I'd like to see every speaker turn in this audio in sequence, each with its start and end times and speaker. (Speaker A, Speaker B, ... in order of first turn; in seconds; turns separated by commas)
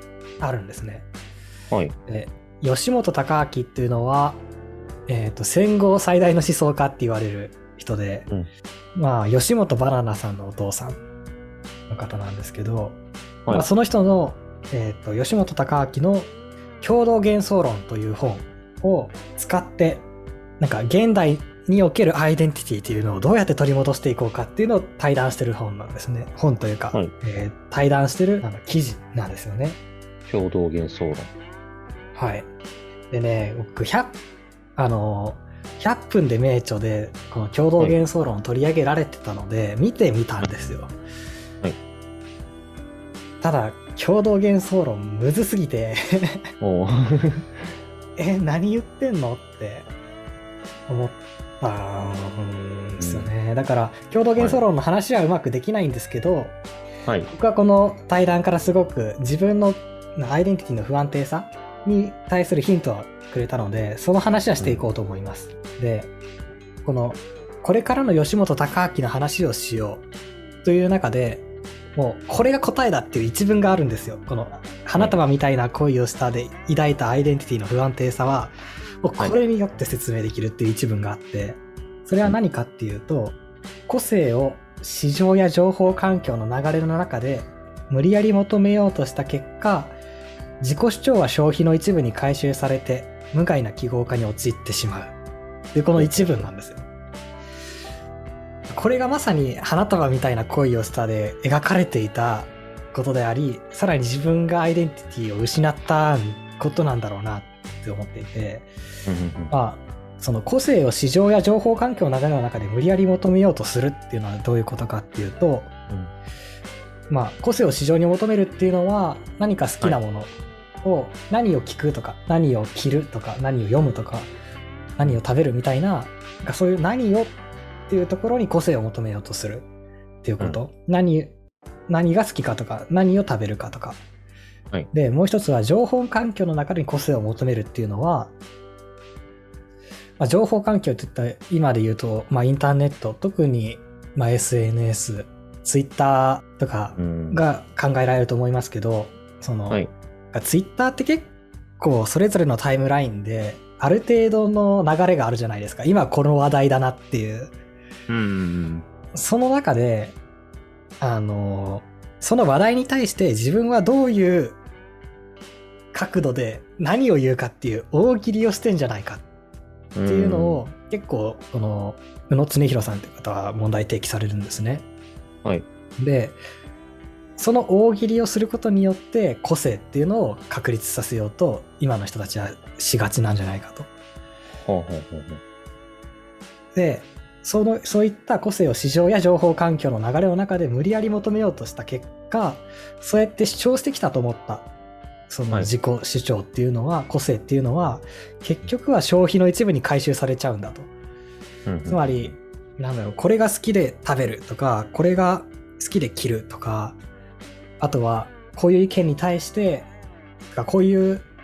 Speaker A: 0.4-1.1, Speaker A: 2.1-4.4, Speaker A: 5.1-8.3, Speaker A: 9.0-11.0, Speaker A: 11.9-13.0, Speaker A: 13.5-16.3, Speaker A: 16.8-20.0, Speaker A: 20.6-29.8, Speaker B: 30.3-31.3, Speaker A: 32.1-32.5, Speaker A: 33.1-34.2, Speaker A: 34.8-40.9, Speaker A: 43.4-46.4, Speaker B: 46.6-47.7, Speaker A: 48.2-49.9, Speaker A: 50.9-56.5, Speaker B: 53.0-53.3, Speaker B: 57.1-57.3, Speaker A: 57.3-66.1, Speaker A: 66.8-70.0, Speaker A: 70.6-71.4, Speaker A: 72.0-83.3, Speaker A: 83.9-90.0, Speaker A: 90.6-95.1, Speaker A: 95.7-96.9, Speaker B: 96.0-96.4, Speaker A: 98.7-108.7, Speaker B: 109.1-109.5, Speaker A: 109.5-115.7, Speaker A: 117.1-120.3, Speaker A: 120.8-124.3, Speaker A: 125.0-127.3, Speaker A: 127.9-129.7, Speaker A: 130.2-131.3, Speaker A: 131.9-134.0, Speaker A: 134.9-138.3, Speaker A: 140.2-157.5, Speaker B: 146.9-147.4, Speaker B: 158.1-158.8, Speaker A: 159.1-160.2, Speaker A: 161.0-164.6, Speaker A: 165.9-169.2, Speaker B: 169.9-170.6, Speaker A: 170.1-174.8, Speaker A: 176.0-176.4, Speaker A: 177.4-183.9, Speaker B: 184.7-185.4, Speaker A: 186.8-194.7, Speaker A: 195.3-200.9, Speaker B: 201.7-202.0, Speaker A: 201.9-207.0, Speaker A: 207.8-209.9, Speaker A: 210.5-211.2